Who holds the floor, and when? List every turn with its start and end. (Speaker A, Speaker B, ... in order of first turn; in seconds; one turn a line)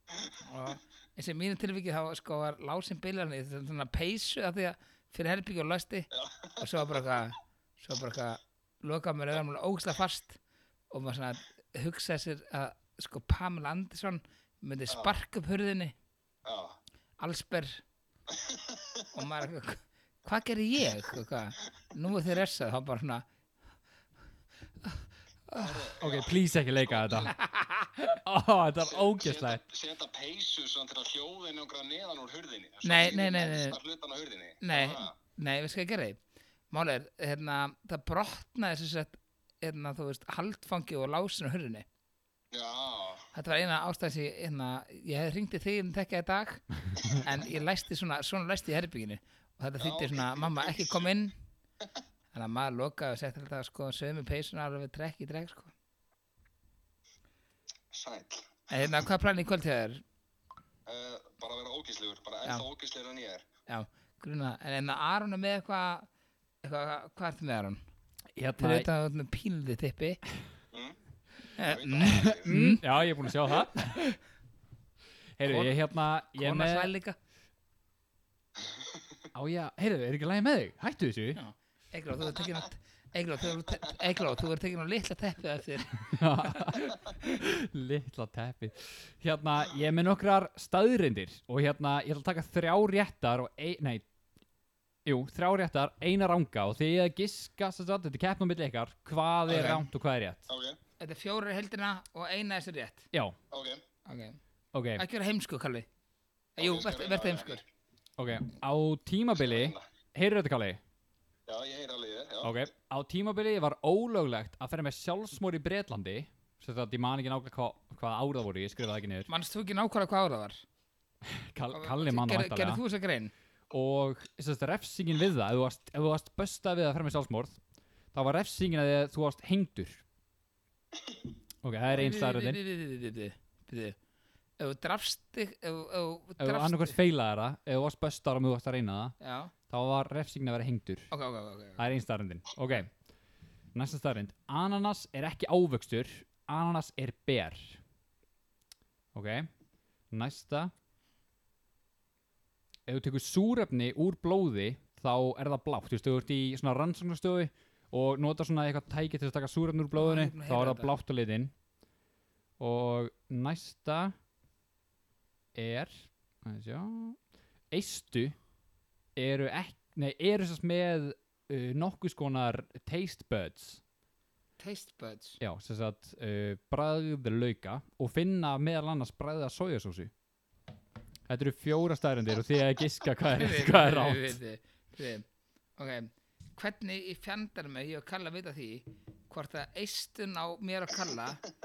Speaker A: 0.4-10.4
Speaker B: 6.1-7.2
Speaker A: 10.9-15.9
Speaker B: 16.4-16.8
Speaker A: 17.2-17.8
Speaker B: 18.3-19.1
Speaker A: 19.1-23.2
Speaker A: 24.8-25.9
Speaker B: 25.6-27.3
Speaker C: 26.0-27.3
Speaker A: 27.3-28.1
Speaker C: 28.2-29.6
Speaker B: 28.9-35.1
Speaker A: 32.8-33.8
Speaker A: 34.6-36.2
Speaker A: 36.7-41.8
Speaker B: 42.5-43.2
Speaker A: 43.3-51.4
Speaker B: 49.8-51.1
Speaker A: 52.3-55.7
Speaker B: 57.9-58.6
Speaker A: 58.7-60.0
Speaker B: 60.9-63.4
Speaker A: 63.7-66.1
Speaker A: 66.6-67.8
Speaker C: 68.3-68.9
Speaker A: 68.6-70.2
Speaker B: 70.7-71.0
Speaker A: 71.5-72.8
Speaker B: 71.6-72.5
Speaker C: 72.2-74.0
Speaker A: 73.8-74.2
Speaker C: 75.4-76.9
Speaker A: 75.4-77.2
Speaker C: 79.3-81.4
Speaker A: 81.3-87.0
Speaker C: 86.1-94.0
Speaker C: 95.0-100.5
Speaker A: 99.5-99.8
Speaker B: 100.5-100.8
Speaker A: 101.0-103.1
Speaker B: 103.5-103.8
Speaker A: 104.0-104.4
Speaker C: 104.7-105.0
Speaker A: 105.0-105.9
Speaker B: 106.6-107.6
Speaker A: 106.6-107.6
Speaker C: 108.2-110.8
Speaker B: 109.3-109.8
Speaker B: 111.5-112.6
Speaker C: 112.4-119.3
Speaker A: 119.3-120.6
Speaker C: 121.2-122.8
Speaker A: 121.7-123.3
Speaker C: 123.7-127.6
Speaker C: 128.1-130.0
Speaker C: 131.6-132.6
Speaker A: 131.9-133.9
Speaker A: 134.6-137.0
Speaker C: 136.4-139.2
Speaker A: 139.2-139.5
Speaker C: 139.7-141.1
Speaker A: 141.1-141.8
Speaker C: 141.8-142.9
Speaker C: 143.7-147.8
Speaker C: 149.1-149.5
Speaker C: 150.1-150.7
Speaker C: 152.9-161.5
Speaker A: 159.9-161.0
Speaker C: 162.6-164.1
Speaker C: 165.5-167.2
Speaker C: 167.7-168.3
Speaker C: 169.2-173.8
Speaker A: 174.6-175.4
Speaker C: 175.4-180.1
Speaker C: 181.3-184.4
Speaker A: 183.3-185.2
Speaker A: 185.8-191.4